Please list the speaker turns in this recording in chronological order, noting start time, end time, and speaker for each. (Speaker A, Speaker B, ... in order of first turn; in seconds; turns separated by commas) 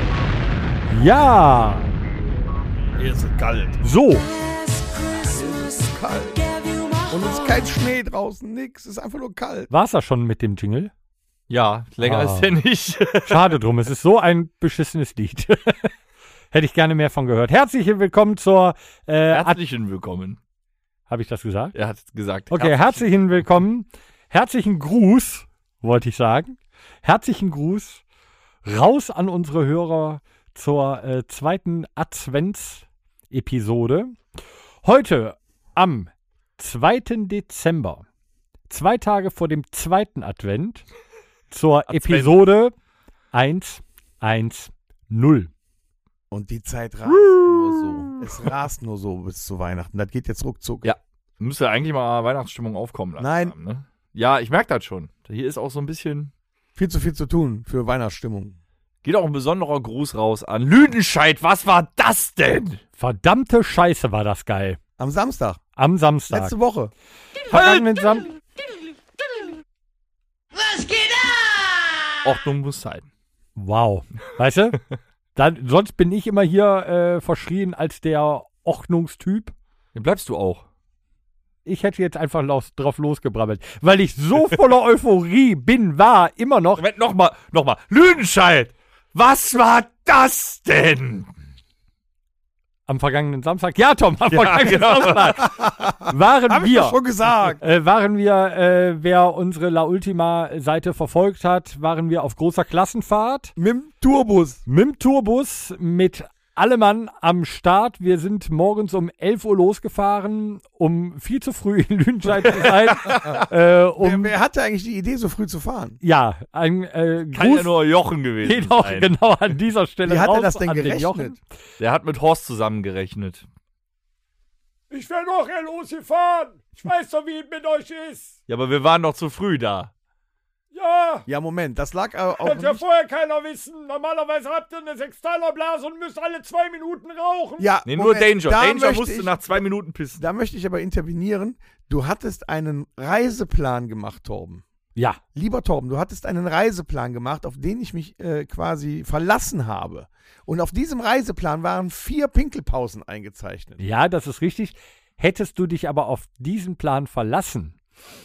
Speaker A: 0.9-1.9, Speaker B: 3.0-3.8, Speaker A: 3.8-4.3, Speaker B: 5.1-9.7, Speaker A: 9.7-10.9, Speaker C: 11.5-13.6, Speaker A: 12.0-12.6, Speaker A: 13.2-15.9, Speaker A: 16.5-19.6, Speaker C: 19.3-20.4, Speaker A: 21.1-21.7, Speaker C: 21.7-23.1, Speaker A: 22.5-28.0, Speaker A: 28.6-34.1, Speaker A: 34.8-38.0, Speaker A: 38.7-40.9, Speaker A: 41.5-42.7, Speaker C: 41.9-42.4, Speaker A: 43.3-45.5, Speaker B: 46.3-50.9, Speaker C: 50.8-56.3, Speaker B: 53.2-53.5, Speaker B: 56.8-58.6, Speaker C: 59.0-62.8, Speaker A: 63.0-64.8, Speaker B: 65.0-65.6, Speaker A: 65.8-66.5, Speaker B: 66.3-66.9, Speaker A: 67.5-68.2, Speaker C: 67.5-67.8, Speaker C: 72.2-73.1, Speaker A: 73.5-74.8, Speaker A: 75.3-79.5, Speaker C: 79.9-80.6, Speaker A: 81.6-86.8, Speaker C: 86.8-91.3, Speaker A: 92.9-97.0, Speaker C: 94.3-95.5, Speaker B: 95.4-97.6, Speaker A: 97.6-103.5, Speaker B: 103.6-104.6, Speaker A: 104.7-114.3, Speaker C: 112.4-113.4, Speaker B: 114.0-116.0, Speaker A: 116.0-117.7, Speaker C: 117.3-119.1, Speaker A: 118.4-121.4, Speaker B: 120.0-121.4, Speaker C: 121.8-123.5, Speaker A: 124.9-128.3, Speaker C: 128.5-129.9, Speaker A: 130.7-131.3, Speaker B: 131.3-132.8, Speaker A: 132.3-137.7, Speaker B: 137.6-139.3, Speaker C: 137.9-140.2, Speaker B: 140.2-144.6, Speaker B: 145.3-153.8, Speaker A: 153.8-157.8